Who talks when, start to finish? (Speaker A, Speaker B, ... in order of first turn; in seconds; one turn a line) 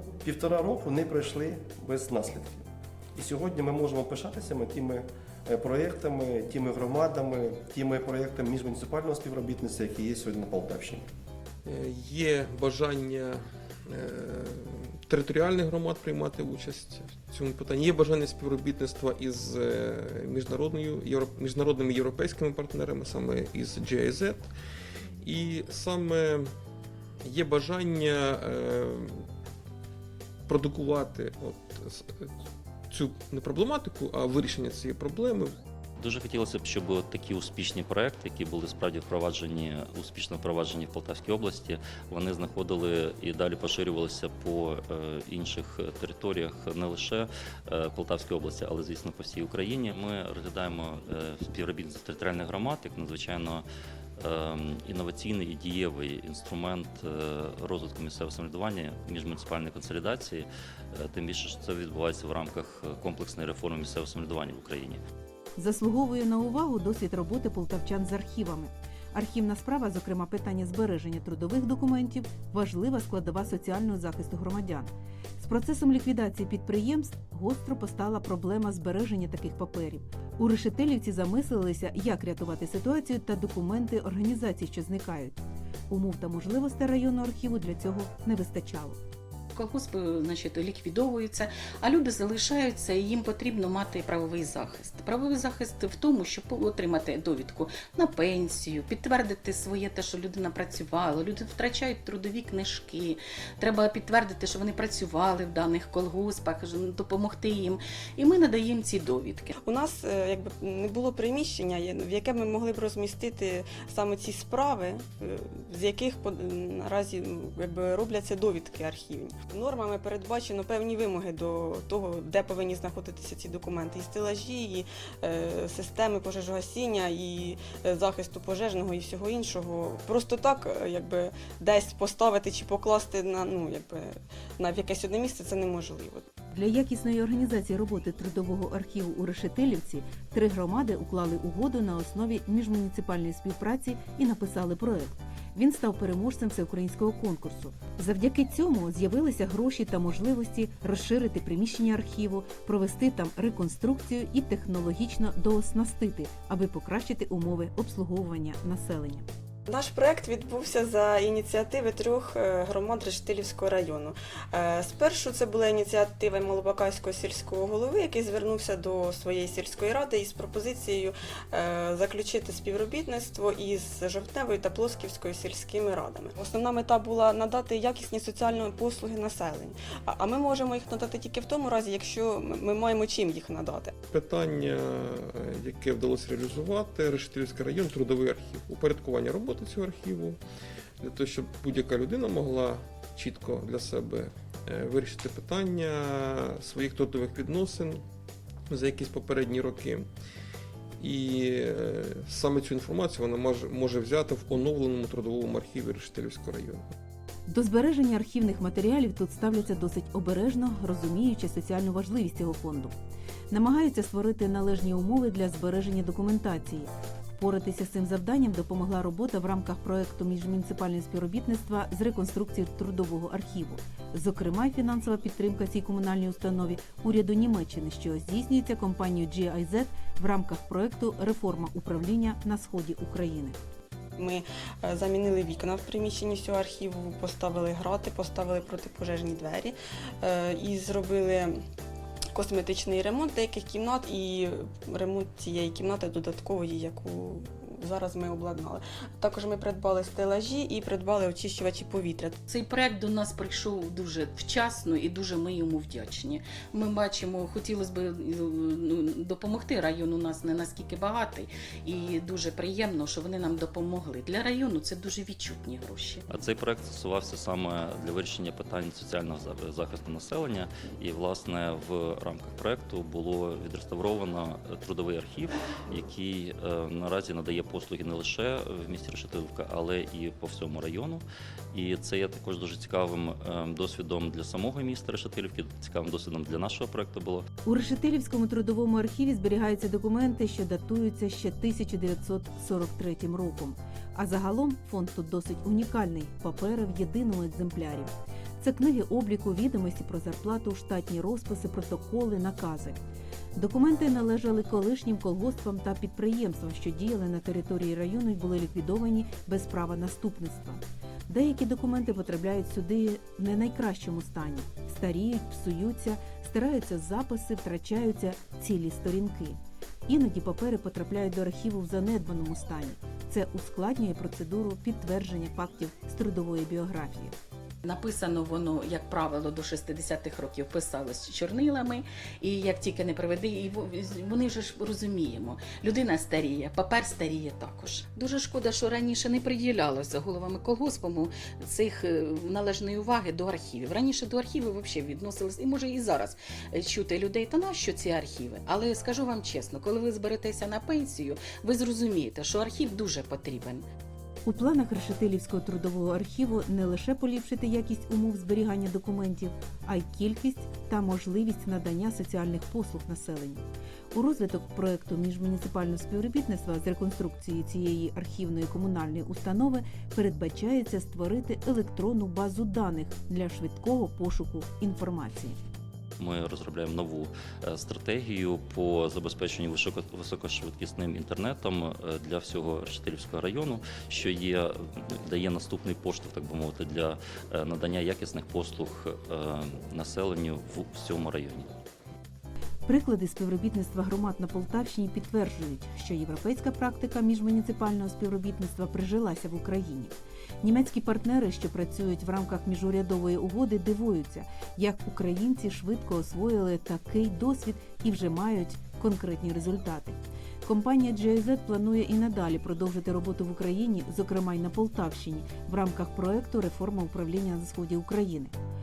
Speaker A: 0.2-11.0
Speaker B: 11.6-24.5
Speaker B: 25.2-26.5
Speaker B: 27.2-29.3
Speaker B: 30.5-32.3
Speaker B: 32.9-35.5
Speaker C: 36.0-53.6
Speaker C: 54.2-65.0
Speaker D: 65.6-85.4
Speaker D: 85.9-89.0
Speaker E: 89.5-109.5
Speaker F: 109.6-136.2
Speaker D: 136.5-159.2
Speaker F: 159.7-183.9
Speaker B: 184.1-190.4
Speaker B: 191.0-198.0
Speaker B: 198.7-200.1
Speaker B: 201.0-206.8
Speaker D: 207.5-212.9
Speaker D: 213.5-233.6
Speaker F: 234.2-241.5
Speaker F: 242.3-252.3
Speaker E: 252.5-266.2
Speaker C: 266.3-287.5
Speaker D: 287.6-303.0
Speaker D: 303.6-327.3
Speaker E: 327.8-353.8
Speaker D: 354.4-375.6
Speaker C: 376.2-391.7
Speaker D: 392.9-418.5